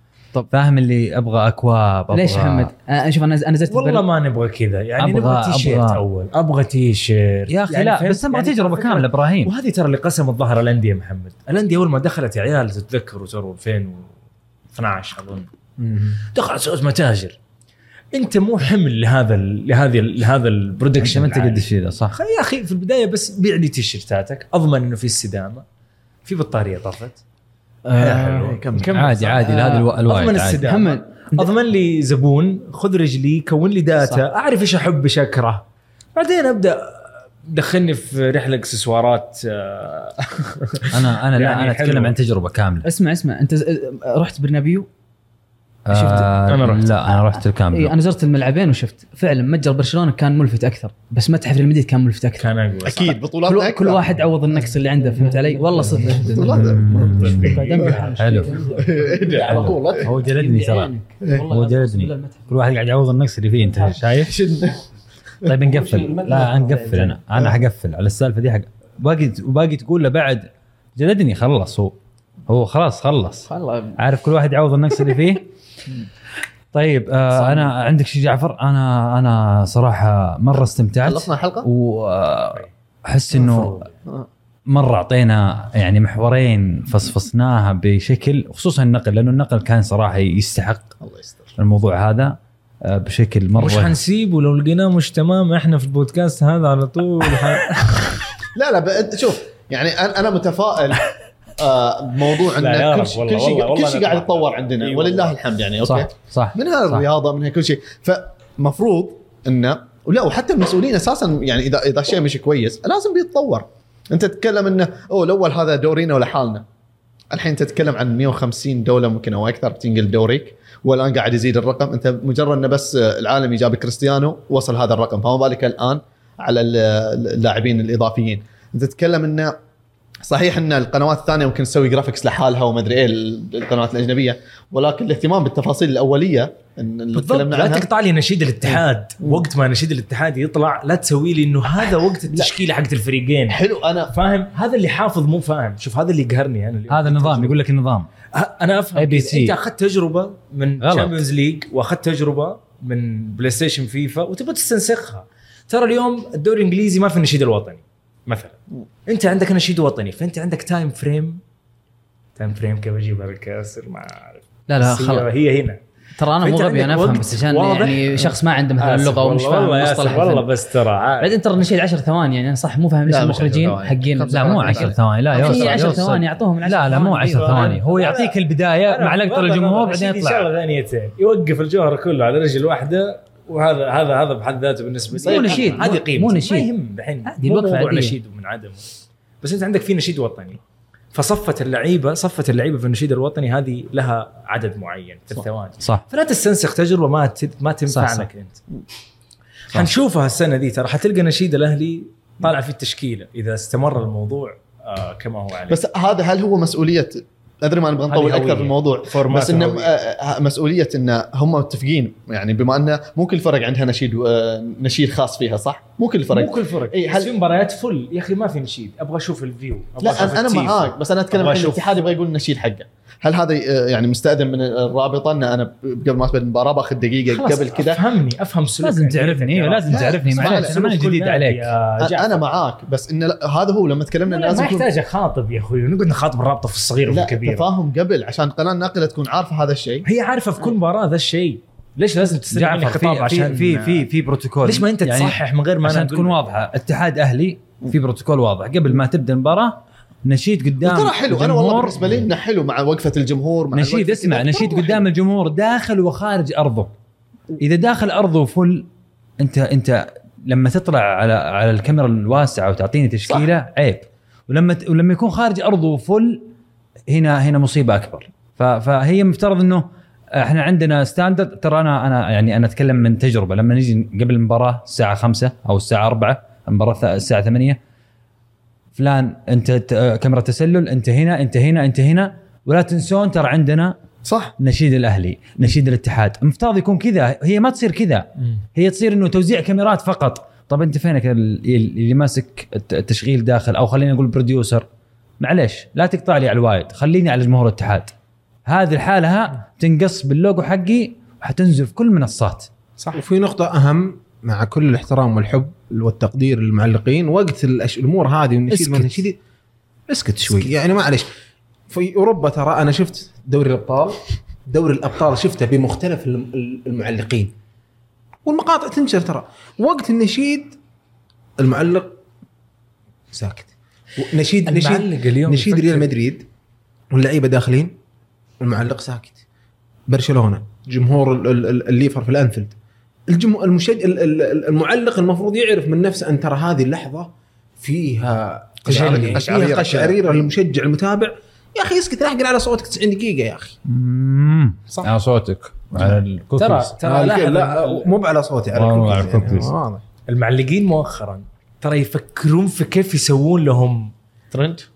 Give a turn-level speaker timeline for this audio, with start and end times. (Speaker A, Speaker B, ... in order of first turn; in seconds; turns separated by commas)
Speaker A: 0.5-2.7, Speaker B: 2.1-4.0, Speaker C: 3.7-14.1, Speaker A: 5.0-6.0, Speaker A: 7.5-9.5, Speaker C: 14.7-15.5, Speaker D: 15.8-16.2, Speaker C: 16.3-17.4, Speaker C: 18.1-25.6, Speaker A: 21.0-22.2, Speaker C: 26.2-27.2, Speaker B: 27.9-28.4, Speaker E: 28.0-28.9, Speaker C: 28.0-35.6, Speaker A: 28.9-30.6, Speaker B: 29.5-29.9, Speaker B: 30.6-31.5, Speaker C: 36.1-42.1, Speaker A: 40.9-42.9, Speaker B: 42.8-44.9, Speaker A: 45.9-47.9, Speaker B: 45.9-46.3, Speaker C: 46.1-47.0, Speaker B: 47.7-52.5, Speaker C: 52.4-53.2, Speaker E: 52.8-54.2, Speaker B: 53.4-62.7, Speaker D: 55.1-57.4, Speaker E: 56.3-58.1, Speaker A: 56.5-57.6, Speaker C: 57.4-58.2, Speaker A: 58.1-58.5, Speaker E: 58.6-60.0, Speaker C: 59.3-59.7, Speaker D: 59.3-60.8, Speaker A: 60.0-60.9, Speaker A: 61.5-64.3, Speaker E: 64.2-64.8, Speaker A: 65.4-71.9, Speaker D: 65.6-67.2, Speaker A: 72.5-75.5, Speaker B: 73.5-74.0, Speaker A: 76.7-83.8, Speaker B: 77.3-77.7, Speaker E: 81.0-81.7, Speaker C: 83.3-83.9, Speaker A: 84.7-90.9, Speaker E: 91.0-91.5, Speaker A: 91.6-93.9, Speaker C: 93.6-98.2, Speaker E: 98.5-116.6, Speaker C: 102.5-105.4, Speaker A: 105.8-107.0, Speaker E: 117.3-129.5, Speaker E: 130.3-137.9, Speaker C: 137.1-147.6, Speaker E: 138.6-139.4, Speaker E: 143.5-144.1, Speaker A: 146.9-148.1, Speaker C: 148.3-161.4, Speaker A: 148.9-149.5, Speaker A: 150.8-151.2, Speaker C: 162.3-165.8, Speaker B: 164.7-165.3, Speaker B: 166.2-170.5, Speaker C: 166.4-171.3, Speaker B: 171.2-177.8, Speaker E: 173.1-176.0, Speaker A: 174.3-180.5, Speaker C: 177.3-188.9, Speaker B: 185.2-186.7, Speaker E: 185.2-186.0, Speaker B: 187.2-188.2, Speaker C: 189.4-190.6, Speaker C: 191.1-198.6, Speaker A: 197.9-198.3, Speaker C: 199.7-205.8, Speaker E: 205.7-217.3, Speaker C: 208.1-209.9, Speaker C: 216.3-222.0, Speaker E: 220.0-228.0, Speaker C: 227.3-232.4, Speaker A: 228.8-231.7, Speaker E: 229.9-230.7, Speaker E: 232.0-234.9, Speaker C: 234.2-237.7, Speaker E: 237.1-240.0, Speaker C: 240.0-244.1, Speaker A: 242.5-252.1, Speaker C: 244.6-246.4, Speaker E: 250.8-255.0, Speaker A: 253.7-256.9, Speaker A: 257.6-258.9, Speaker A: 259.4-266.5, Speaker A: 267.1-277.8, Speaker A: 278.9-284.0, Speaker E: 284.2-284.5, Speaker A: 284.6-294.9, Speaker A: 295.4-298.1, Speaker A: 298.6-302.7, Speaker D: 303.1-309.4, Speaker A: 308.7-309.2, Speaker D: 310.1-311.3, Speaker D: 311.9-317.5, Speaker D: 318.4-320.8, Speaker D: 321.6-322.2, Speaker D: 323.3-326.5, Speaker C: 324.6-326.1, Speaker D: 327.1-328.0, Speaker D: 328.6-329.4, Speaker D: 330.1-332.8, Speaker D: 333.3-343.8, Speaker C: 338.8-339.8, Speaker A: 338.9-339.3, Speaker E: 338.9-340.2, Speaker A: 343.9-346.9, Speaker C: 344.9-345.1, Speaker C: 346.0-348.1, Speaker D: 347.0-350.0, Speaker A: 348.7-349.7, Speaker C: 350.3-354.1, Speaker E: 354.5-354.9